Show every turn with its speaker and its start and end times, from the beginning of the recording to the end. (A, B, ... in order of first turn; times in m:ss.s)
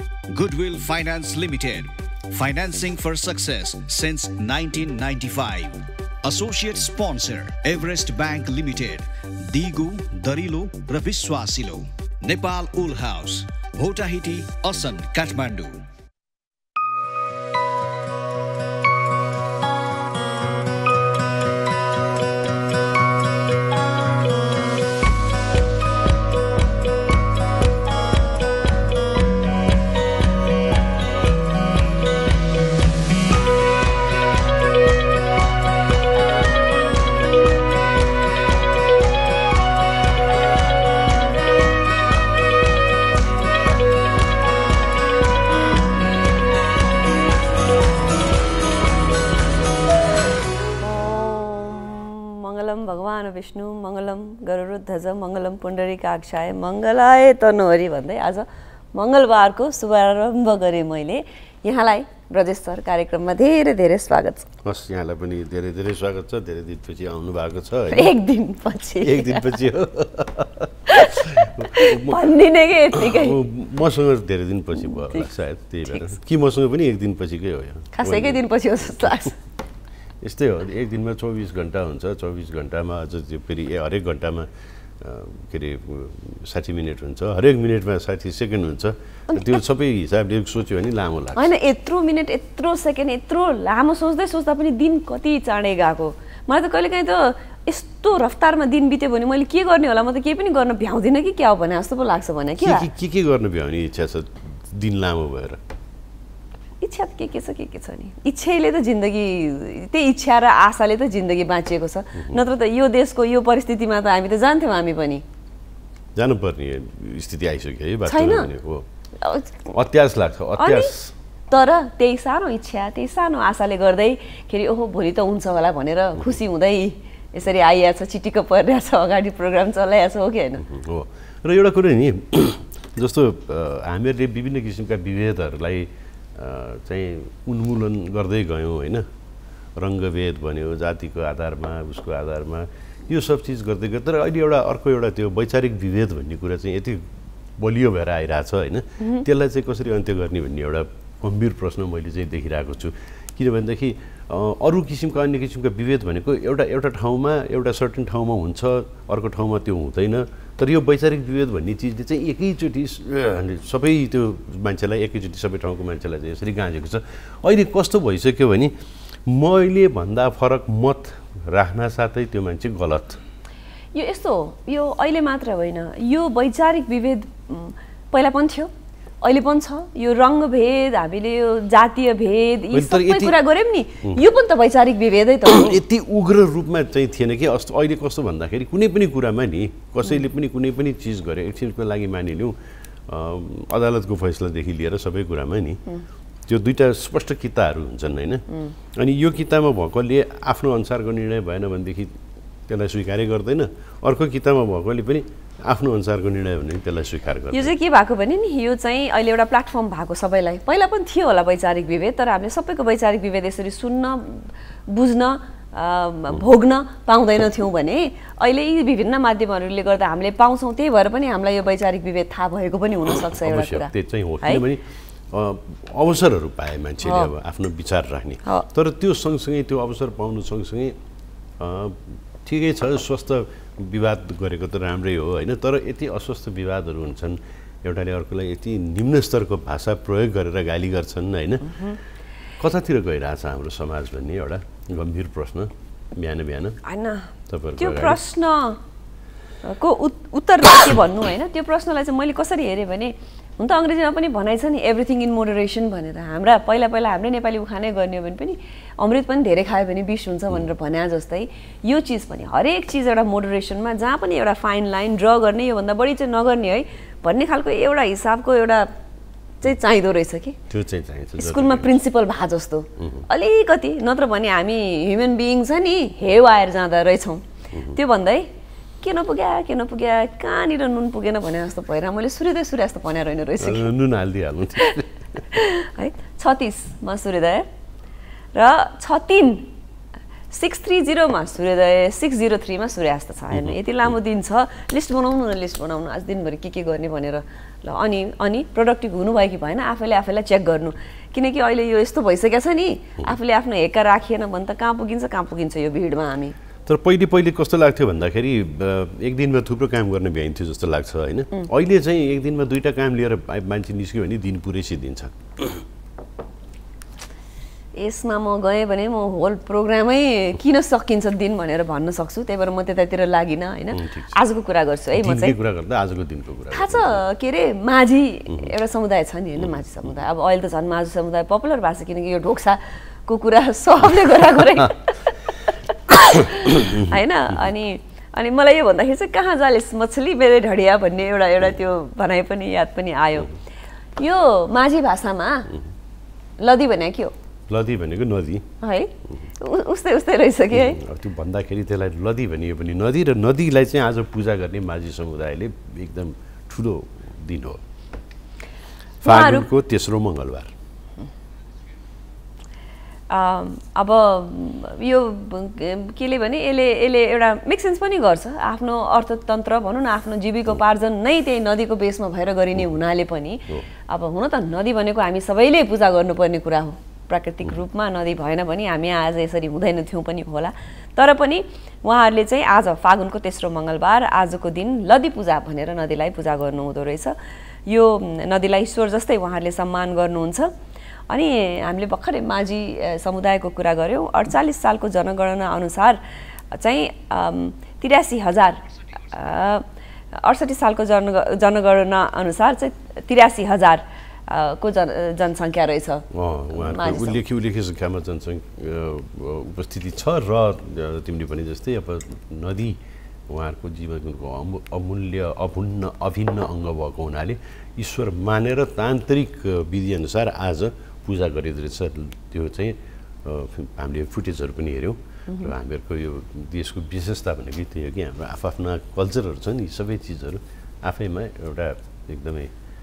0:00.3-0:15.8 A
0:50.8-1:04.5 B
1:04.6-1:08.1 C
1:07.9-1:09.6 B
1:09.0-1:12.2 C
1:10.9-1:13.4 B
1:12.9-1:18.4 C
1:18.0-1:19.4 B
1:20.2-1:24.5 C
1:25.0-1:31.5 C
1:29.3-1:29.6 B
1:31.4-1:42.9 B
1:42.6-1:45.6 C
1:46.8-1:55.2 B
1:52.2-1:52.4 C
1:56.2-1:58.9 C
1:58.1-1:58.5 B
1:59.2-1:59.5 B
1:59.7-2:01.1 C
2:00.6-2:00.9 B
2:01.5-2:10.6 B
2:10.6-2:19.1 C
2:19.8-2:27.0 C
2:27.6-2:48.7 C
2:49.3-2:53.2 C
2:53.9-2:58.7 B
2:59.2-3:05.8 B
3:02.7-3:03.4 C
3:05.5-3:12.6 C
3:13.1-3:15.8 C
3:16.5-3:22.2 C
3:22.7-3:27.7 C
3:27.5-3:44.6 B
3:43.4-3:51.0 C
3:47.0-3:47.3 B
3:51.6-4:02.0 C
4:02.6-4:06.8 C
4:06.8-4:08.8 B
4:07.5-4:08.2 C
4:09.6-4:28.9 B
4:29.6-4:30.6 B
4:30.7-4:32.0 C
4:31.4-4:38.5 B
4:33.0-4:33.2 C
4:39.0-4:43.9 B
4:43.6-4:45.1 C
4:45.5-4:47.7 B
4:48.6-4:49.7 B
4:50.5-5:06.6 B
5:06.9-5:15.7 C
5:18.0-5:25.6 B
5:23.9-5:24.4 C
5:25.2-5:27.2 C
5:26.7-5:35.3 B
5:29.6-5:30.1 C
5:36.1-5:43.5 B
5:36.7-5:37.2 C
5:44.2-5:45.7 B
5:46.6-5:47.3 B
5:47.7-5:48.7 C
5:48.8-5:51.0 B
5:50.7-5:57.8 C
5:59.2-5:59.7 B
5:59.2-6:00.7 C
6:03.3-6:27.4 B
6:27.9-6:30.7 B
6:31.3-6:36.2 B
6:36.7-6:47.4 B
6:46.3-6:53.0 C
6:53.5-7:12.7 C